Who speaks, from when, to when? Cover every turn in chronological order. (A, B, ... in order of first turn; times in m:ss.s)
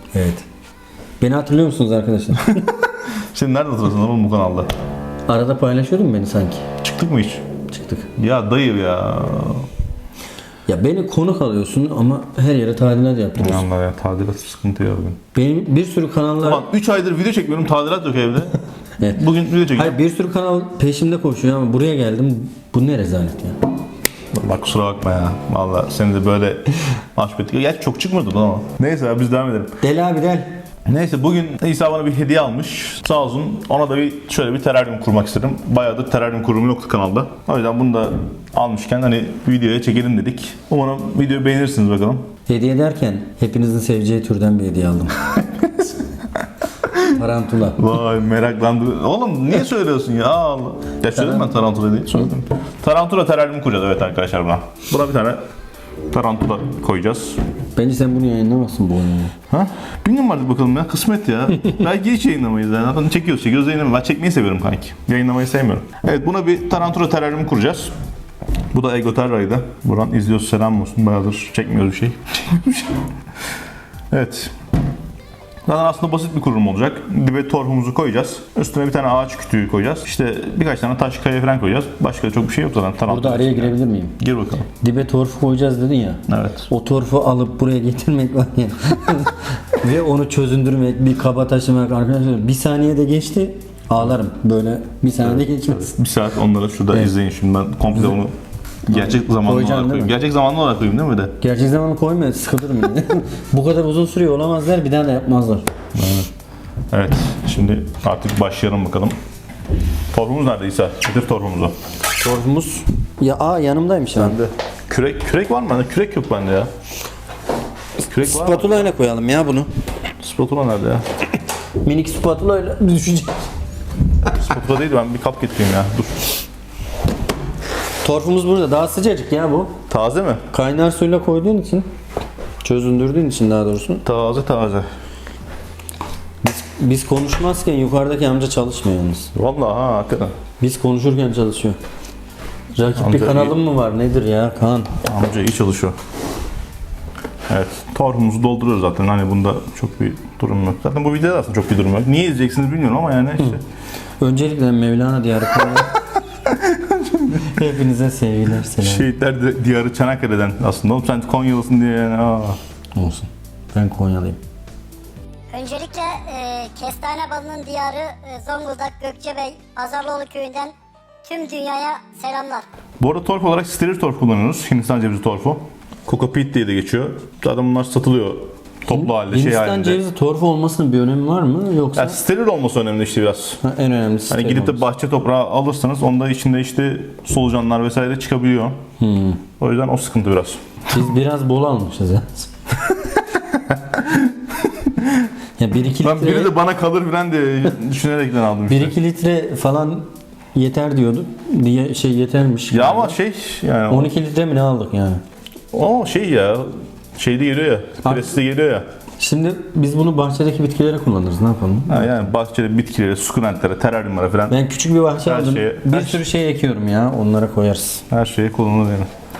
0:00.1-0:00.4 A
0:01.2-0:02.6 A
0:02.5-0:04.7 B
0:05.3-0:06.6 A
0:06.8-0:07.4 B
0:07.7-0:08.1 A
0:08.2-0:09.7 B
0:10.7-0:13.7 A
0:13.4-0:15.2 B
0:15.3-0:16.6 A
0:16.4-0:18.6 B
0:19.1-0:20.0 B
0:19.7-0:23.6 A
0:24.3-0:29.8 B
0:29.8-0:30.5 A
0:30.9-0:42.3 B
0:42.5-0:45.2 A
0:45.4-0:45.9 B
0:47.1-0:47.8 A
0:47.8-0:55.4 B
0:51.1-0:51.6 A
0:56.1-0:57.4 B
0:57.8-0:59.3 A
0:59.5-1:07.9 B
1:08.7-1:13.0 B
1:14.1-1:14.5 B
1:15.6-1:24.7 B
1:23.1-1:24.2 A
1:24.8-1:36.0 A
1:26.3-1:26.7 B
1:35.2-1:38.3 B
1:38.9-1:41.3 B
1:38.9-1:40.1 A
1:41.4-1:45.6 A
1:46.0-1:46.3 B
1:46.9-1:49.2 B
1:50.1-1:51.8 B
1:52.2-1:54.4 A
1:54.2-1:56.7 B
1:58.0-1:58.9 B
1:58.2-1:59.7 A
2:00.2-2:01.0 B
2:01.8-2:03.4 A
2:04.3-2:06.3 B
2:08.0-2:09.7 A
2:09.9-2:10.4 B
2:10.5-2:11.9 A
2:12.6-2:14.0 A
2:14.0-2:14.9 B
2:16.4-2:19.3 A
2:19.3-2:20.3 B
2:20.6-2:21.8 A
2:22.8-2:25.0 A
2:23.0-2:23.6 B
2:25.0-2:26.0 B
2:27.5-2:33.6 B
2:34.2-2:35.9 A
2:36.5-2:37.4 B
2:37.3-2:39.1 A
2:38.8-2:42.6 B
2:43.0-2:44.4 A
2:45.5-2:50.7 C
2:51.2-2:52.6 C
2:53.0-3:00.0 B
2:58.9-3:02.2 A
3:02.0-3:03.6 B
3:03.6-3:04.8 A
3:04.3-3:08.8 B
3:09.0-3:09.4 A
3:09.6-3:10.6 B
3:10.9-3:12.5 A
3:13.7-3:15.3 B
3:15.6-3:16.5 A
3:16.0-3:19.0 B
3:18.7-3:23.2 A
3:22.7-3:24.1 B
3:23.9-3:25.2 A
3:25.7-3:28.8 B
3:28.0-3:28.4 A
3:29.2-3:32.3 A
3:31.9-3:34.6 B
3:34.5-3:38.0 A
3:35.2-3:36.2 B
3:38.1-3:39.1 B